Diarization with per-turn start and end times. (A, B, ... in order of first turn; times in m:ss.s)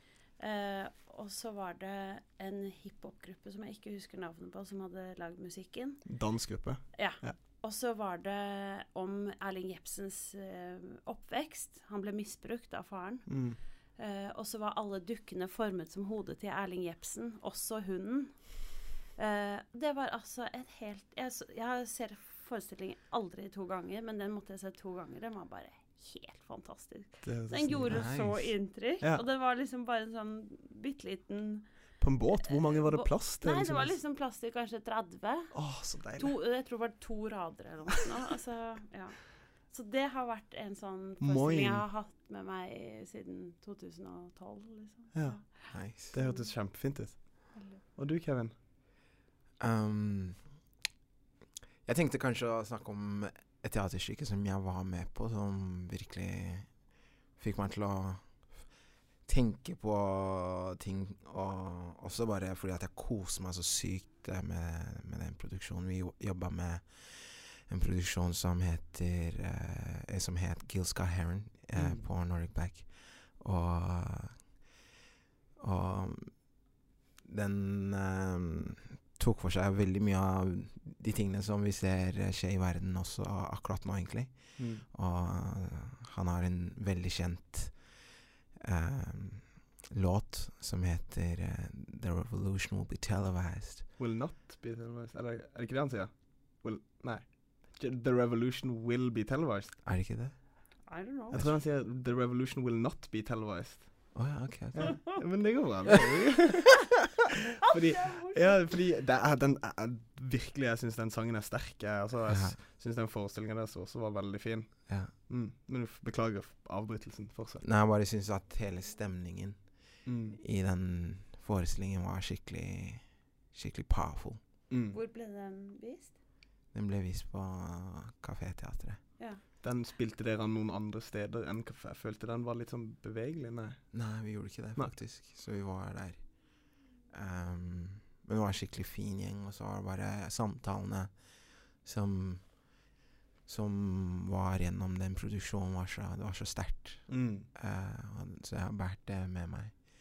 0:00.4-0:06.2 A
0:06.0-0:07.4 B
0:06.9-0:31.7 A
0:13.3-0:13.6 B
0:27.2-0:28.1 B
0:27.9-0:28.5 C
0:32.0-0:34.0 B
0:32.4-0:47.8 A
0:35.5-0:36.3 B
0:41.2-0:41.8 B
0:45.1-0:48.5 B
0:45.7-0:46.1 C
0:49.6-0:50.6 C
0:51.8-1:14.6 C
1:11.7-1:12.1 B
1:15.6-1:16.7 C
1:17.2-1:28.0 C
1:24.6-1:24.8 B
1:28.6-1:33.9 C
1:34.0-1:39.8 B
1:39.8-1:40.5 C
1:40.8-1:41.5 A
1:41.3-1:46.9 B
1:44.1-1:45.3 C
1:44.8-1:45.2 A
1:47.6-1:57.6 B
1:47.8-1:48.7 A
1:52.3-1:52.6 C
1:54.9-1:55.1 C
1:57.6-2:04.4 C
2:00.0-2:00.4 B
2:04.7-2:05.0 B
2:04.9-2:06.2 A
2:06.7-2:09.0 C
2:09.6-2:15.0 B
2:13.9-2:22.8 C
2:23.4-2:29.8 C
2:27.1-2:27.5 B